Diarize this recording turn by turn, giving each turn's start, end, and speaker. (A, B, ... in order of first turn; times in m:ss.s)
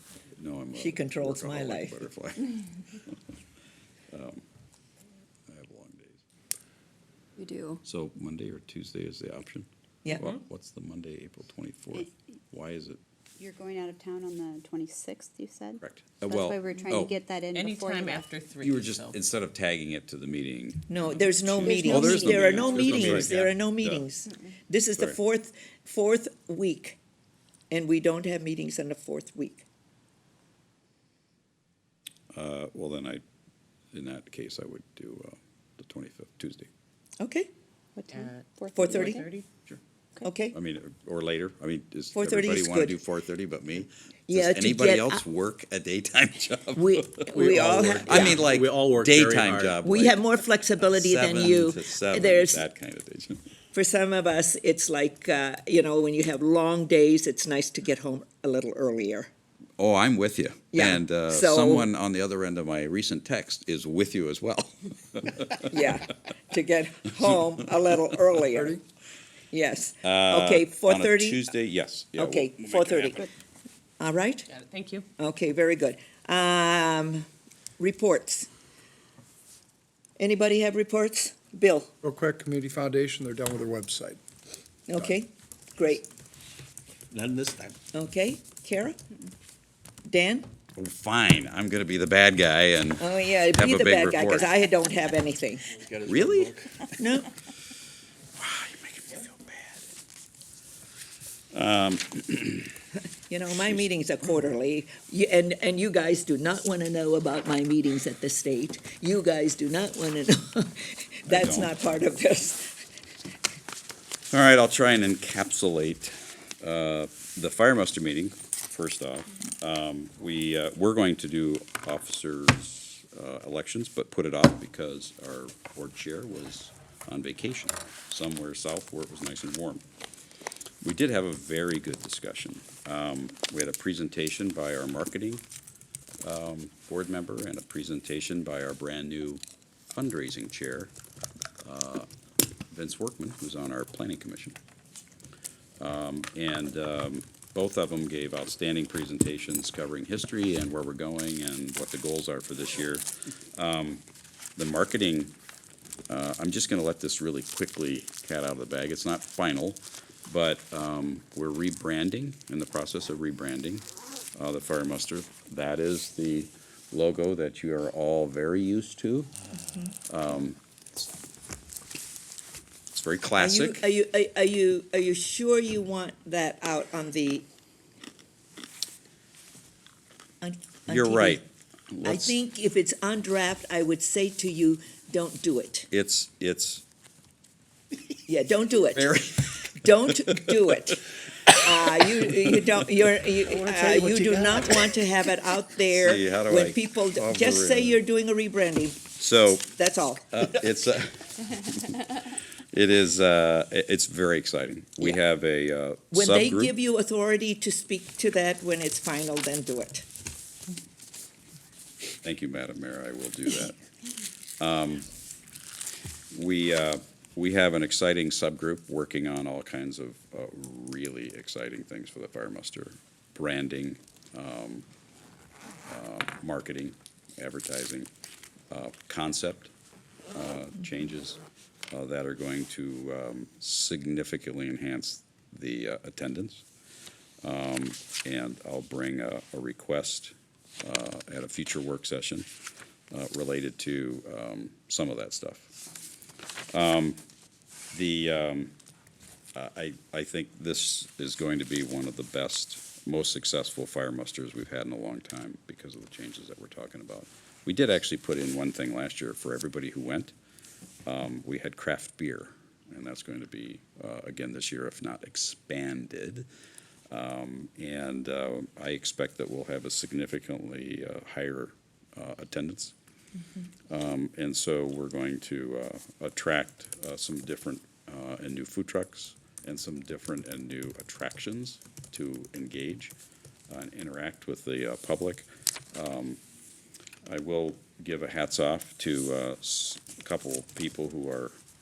0:00.4-0:02.6 A
0:00.8-0:02.0 B
0:04.1-0:04.4 A
0:05.5-0:06.2 A
0:07.4-0:07.8 C
0:07.8-0:13.0 A
0:13.4-0:18.3 C
0:15.8-0:17.1 A
0:17.5-0:19.2 D
0:18.6-0:24.1 A
0:20.9-0:27.0 B
0:21.7-0:22.6 C
0:22.7-0:23.5 E
0:27.7-0:29.7 B
0:32.3-0:33.2 A
0:33.9-0:36.7 A
0:37.2-0:37.5 B
0:38.0-0:39.3 C
0:38.1-0:39.4 D
0:38.8-0:39.2 B
0:40.2-0:40.6 B
0:40.5-0:47.4 A
0:42.1-0:43.0 B
0:44.3-0:45.2 B
0:46.8-0:48.5 B
0:47.3-0:49.8 E
0:48.0-0:50.2 A
0:49.8-0:52.6 B
0:50.8-0:53.4 A
0:53.7-0:59.3 B
0:59.8-1:05.8 A
1:00.7-1:01.9 B
1:05.6-1:08.8 B
1:07.2-1:08.7 A
1:09.5-1:11.5 B
1:10.0-1:13.2 A
1:12.2-1:13.3 B
1:14.0-1:14.5 B
1:14.5-1:15.1 D
1:15.2-1:17.3 B
1:17.8-1:18.5 B
1:20.2-1:21.9 B
1:22.0-1:24.2 F
1:24.9-1:26.1 B
1:27.1-1:27.8 E
1:27.9-1:29.0 B
1:30.1-1:30.5 B
1:30.8-1:34.5 A
1:33.0-1:35.7 B
1:35.7-1:36.8 E
1:36.1-1:36.6 A
1:37.0-1:37.3 B
1:38.4-1:39.9 A
1:41.5-1:42.7 A
1:43.3-1:52.8 B
1:51.3-1:51.7 A
1:54.3-2:09.8 A
2:10.8-2:15.4 A
2:16.2-2:20.9 A
2:21.6-2:22.1 A
2:22.7-2:24.6 A
2:25.8-2:34.0 A
2:34.6-2:35.3 A
2:36.1-2:49.3 A
2:50.1-2:50.6 A
2:52.9-2:53.8 A
2:53.4-2:57.5 B
3:00.4-3:01.4 B
3:00.9-3:02.4 A
3:02.0-3:05.9 B
3:05.9-3:06.8 A
3:08.3-3:09.1 B
3:09.0-3:10.8 A
3:09.8-3:20.4 B
3:11.5-3:12.6 A
3:14.6-3:14.8 E
3:15.8-3:18.0 A
3:19.2-3:19.6 A
3:20.3-3:26.8 A
3:26.1-3:30.1 B
3:32.2-3:33.8 A
3:34.6-3:35.1 A
3:36.3-3:44.8 A
3:45.9-3:48.1 A
3:48.7-3:49.7 A
3:50.3-3:51.4 A
3:51.9-3:56.6 A
3:57.4-4:02.5 A
4:03.1-4:05.7 A
4:06.7-4:07.2 A
4:07.9-4:08.7 A
4:09.6-4:20.3 A
4:21.1-4:26.5 A
4:27.1-4:32.9 A
4:33.9-4:43.1 A
4:43.7-4:46.4 A
4:47.3-4:51.6 A